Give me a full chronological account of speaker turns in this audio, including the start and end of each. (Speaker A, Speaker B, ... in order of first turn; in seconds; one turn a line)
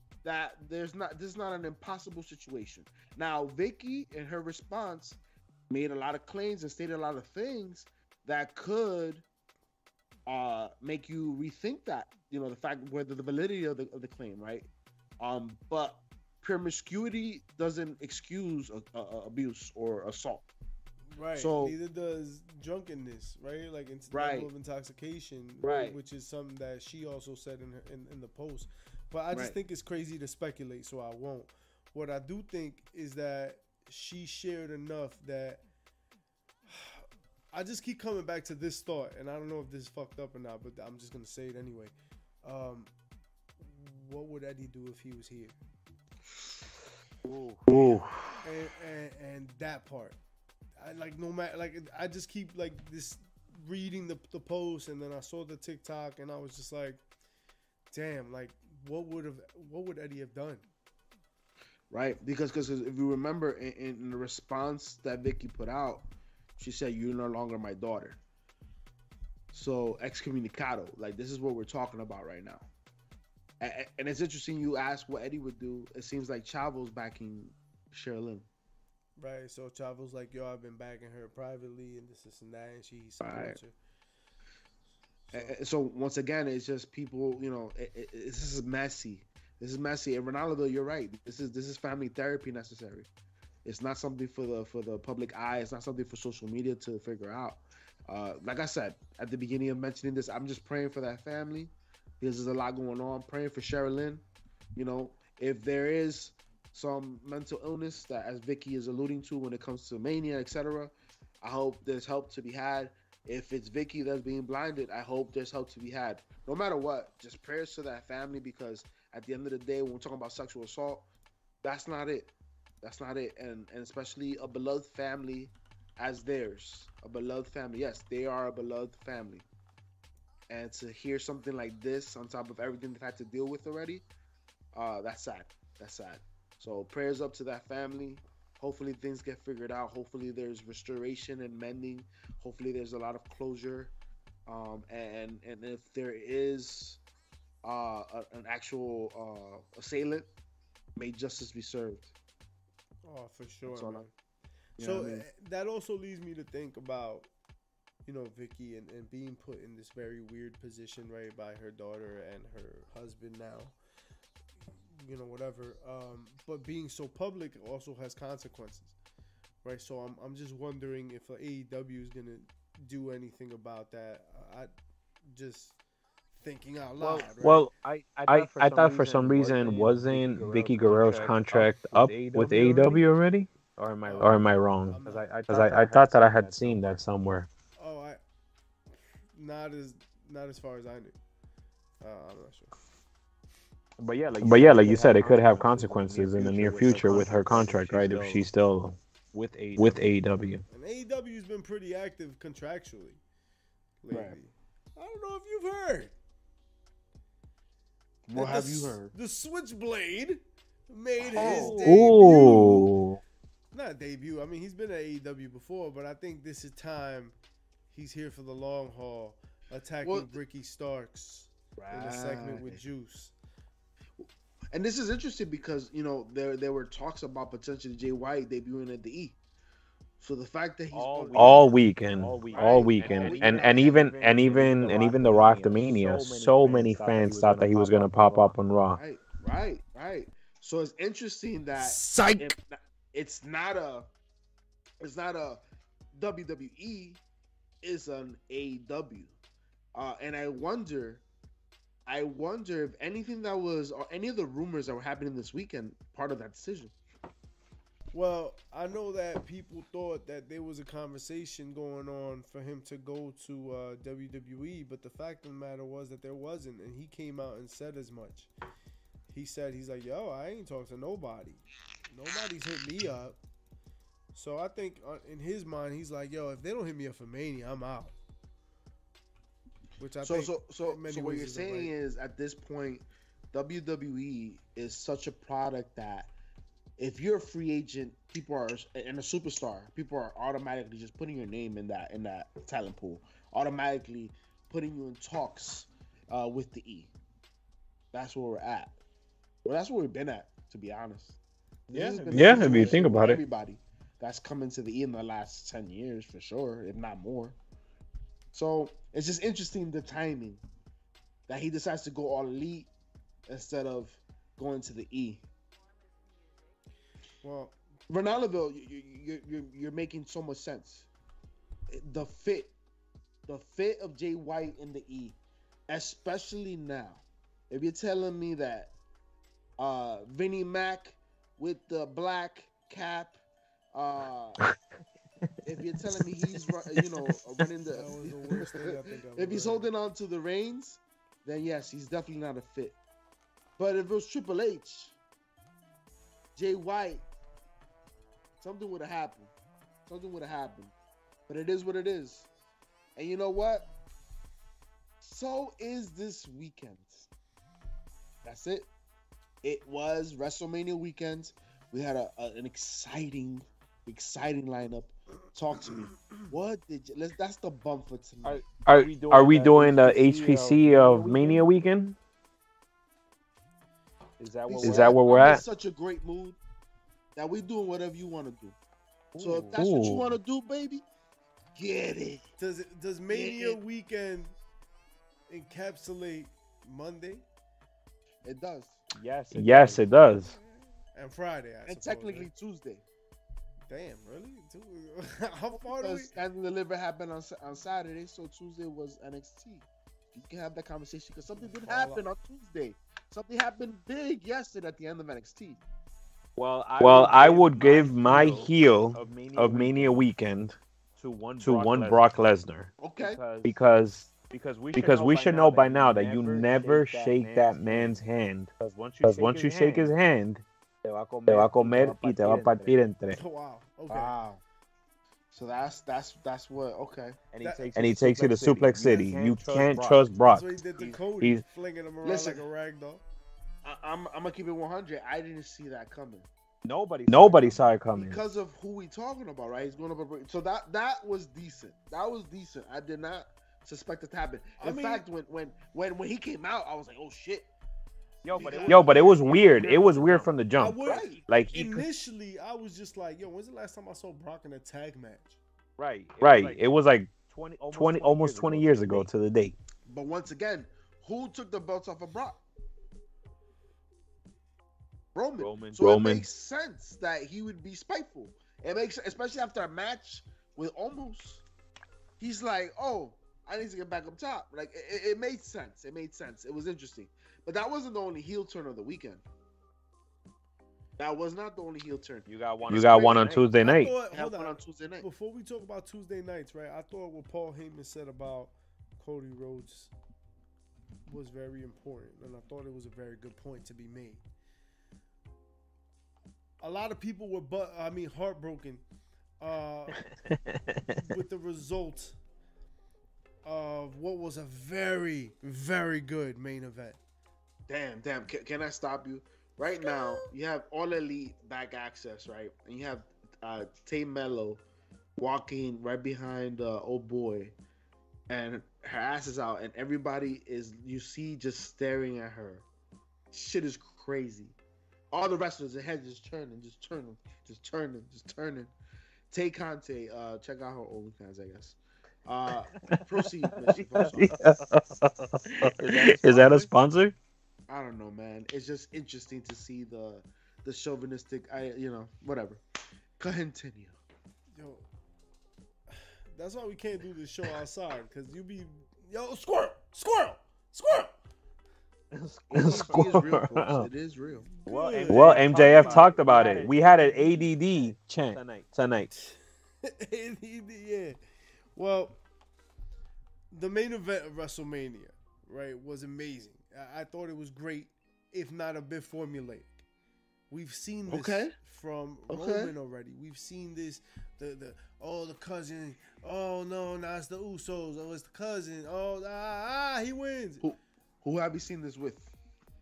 Speaker A: 0.2-5.2
Speaker A: 5.7-9.2
Speaker A: 10.3-14.7
Speaker A: 15.2-20.5
Speaker B: 21.1-35.6
Speaker A: 21.4-21.8
Speaker A: 24.1-24.5
Speaker A: 25.6-26.0
Speaker B: 36.7-42.9
Speaker B: 43.6-45.6
Speaker A: 47.2-48.4
Speaker B: 48.4-50.2
Speaker B: 50.8-57.0
Speaker B: 57.9-60.6
Speaker A: 61.9-68.2
Speaker A: 69.5-72.7
Speaker A: 73.6-78.5
Speaker B: 79.2-83.8
Speaker A: 83.2-83.6
Speaker B: 85.3-85.5
Speaker A: 85.3-93.1
Speaker A: 93.7-104.2
Speaker A: 104.8-121.1
Speaker A: 121.6-129.5
Speaker A: 130.5-134.0
Speaker A: 134.7-143.9
Speaker A: 144.5-147.0
Speaker A: 147.6-150.3
Speaker A: 151.0-152.1
Speaker B: 153.0-154.1
Speaker A: 153.7-154.1
Speaker A: 154.8-155.3
Speaker B: 154.8-157.3
Speaker B: 158.1-163.7
Speaker B: 164.9-168.9
Speaker B: 169.6-174.7
Speaker B: 175.2-175.8
Speaker B: 176.4-177.7
Speaker A: 177.0-177.3
Speaker C: 177.0-183.0
Speaker D: 177.4-177.7
Speaker D: 178.3-187.5
Speaker C: 183.8-184.4
Speaker B: 184.0-185.3
Speaker C: 185.1-187.0
Speaker B: 187.8-188.2
Speaker B: 189.3-191.2
Speaker B: 192.0-192.7
Speaker C: 194.0-198.4
Speaker D: 194.4-199.0
Speaker A: 194.8-195.2
Speaker A: 196.8-198.2
Speaker C: 199.3-200.0
Speaker D: 199.8-200.6
Speaker B: 200.7-203.2
Speaker B: 204.0-206.1
Speaker A: 204.1-204.4
Speaker A: 208.3-209.1
Speaker B: 208.3-212.9
Speaker A: 211.2-212.2
Speaker C: 211.4-211.9
Speaker D: 211.4-213.2
Speaker B: 213.7-217.3
Speaker B: 217.9-223.3
Speaker A: 220.0-220.4
Speaker A: 221.8-222.8
Speaker A: 224.2-229.4
Speaker A: 230.2-231.8
Speaker C: 230.9-238.6
Speaker D: 231.3-239.0
Speaker A: 232.5-234.2
Speaker A: 234.9-235.2
Speaker A: 238.9-244.1
Speaker B: 241.8-242.5
Speaker A: 245.0-245.6
Speaker A: 246.2-247.2
Speaker A: 247.8-249.3
Speaker A: 249.9-251.2
Speaker A: 252.1-256.9
Speaker B: 258.1-268.5
Speaker B: 269.3-273.4
Speaker B: 274.4-278.1
Speaker B: 280.0-281.9
Speaker A: 280.2-286.3
Speaker A: 287.0-297.1
Speaker A: 298.1-299.0
Speaker A: 299.6-301.4
Speaker A: 301.9-307.6
Speaker C: 301.9-303.1
Speaker D: 302.3-303.4
Speaker A: 308.5-310.6
Speaker A: 311.5-312.9
Speaker A: 313.5-315.4
Speaker B: 317.4-317.8
Speaker A: 318.1-321.1
Speaker A: 321.9-322.7
Speaker A: 323.5-325.4
Speaker A: 325.9-328.9
Speaker A: 329.8-333.4
Speaker A: 333.9-334.6
Speaker A: 335.6-343.0
Speaker B: 337.9-339.9
Speaker A: 343.8-345.2
Speaker A: 346.6-347.2
Speaker A: 348.6-349.5
Speaker A: 350.1-350.9
Speaker A: 351.5-352.5
Speaker A: 353.2-353.9
Speaker A: 355.2-357.3
Speaker A: 358.4-358.9
Speaker A: 359.6-368.7
Speaker C: 368.4-371.6
Speaker D: 368.8-372.2
Speaker C: 374.4-375.6
Speaker A: 374.7-376.6
Speaker D: 374.8-375.6
Speaker A: 377.4-378.8
Speaker C: 379.3-379.7
Speaker A: 379.4-381.0
Speaker D: 379.8-380.3
Speaker A: 381.8-382.5
Speaker B: 382.6-384.5
Speaker A: 383.3-383.8
Speaker B: 385.5-387.4
Speaker A: 388.4-389.0
Speaker C: 389.1-390.1
Speaker D: 389.5-390.6
Speaker B: 391.1-392.5
Speaker A: 391.9-393.0
Speaker B: 393.9-396.3
Speaker A: 395.7-405.8
Speaker B: 401.6-402.3
Speaker C: 406.6-410.2
Speaker D: 407.0-410.8
Speaker A: 408.2-408.7
Speaker C: 411.2-412.3
Speaker D: 411.6-412.9
Speaker A: 413.0-413.4
Speaker C: 413.2-418.2
Speaker D: 413.6-414.3
Speaker D: 414.9-418.7
Speaker C: 418.8-420.1
Speaker D: 419.2-420.6
Speaker C: 421.0-423.0
Speaker D: 421.5-423.4
Speaker B: 423.3-424.4
Speaker A: 424.1-424.6
Speaker A: 425.5-427.4
Speaker C: 427.5-430.3
Speaker B: 427.6-428.0
Speaker D: 428.0-430.7
Speaker B: 430.5-433.2
Speaker D: 431.4-431.6
Speaker A: 432.2-432.6
Speaker A: 433.8-436.5
Speaker C: 436.9-437.9
Speaker D: 437.3-438.4
Speaker A: 438.1-447.7
Speaker B: 444.8-445.2
Speaker C: 448.4-450.4
Speaker A: 448.5-450.5
Speaker B: 448.5-449.2
Speaker D: 448.9-452.1
Speaker B: 450.8-455.6
Speaker A: 451.1-451.4
Speaker C: 451.1-451.3
Speaker C: 456.0-456.8
Speaker D: 456.4-457.3
Speaker C: 457.4-459.3
Speaker D: 457.9-459.8
Speaker A: 460.1-462.6
Speaker A: 465.4-471.6
Speaker D: 465.6-466.4
Speaker A: 472.4-479.4
Speaker A: 481.2-485.3
Speaker C: 482.5-483.7
Speaker D: 482.9-484.1
Speaker B: 483.8-490.1
Speaker B: 491.3-494.4
Speaker B: 496.8-499.0
Speaker B: 499.6-500.2
Speaker D: 500.3-500.9
Speaker B: 501.1-502.4
Speaker B: 503.6-507.2
Speaker A: 507.9-514.8
Speaker B: 509.8-510.5
Speaker A: 515.4-517.8
Speaker A: 518.5-522.9
Speaker A: 523.5-524.8
Speaker A: 525.3-528.9
Speaker A: 529.5-534.7
Speaker D: 534.2-537.4
Speaker C: 535.9-536.9
Speaker A: 537.9-542.8
Speaker A: 543.4-544.2
Speaker B: 544.7-545.0
Speaker B: 546.1-551.4
Speaker D: 552.4-554.1
Speaker A: 552.7-554.7
Speaker C: 552.9-553.2
Speaker B: 554.7-557.0
Speaker C: 554.9-558.9
Speaker D: 555.3-559.3
Speaker B: 559.3-561.4
Speaker B: 562.0-562.4
Speaker B: 563.7-570.0
Speaker B: 570.7-580.8
Speaker A: 571.3-571.8
Speaker A: 572.5-572.9
Speaker A: 580.8-582.5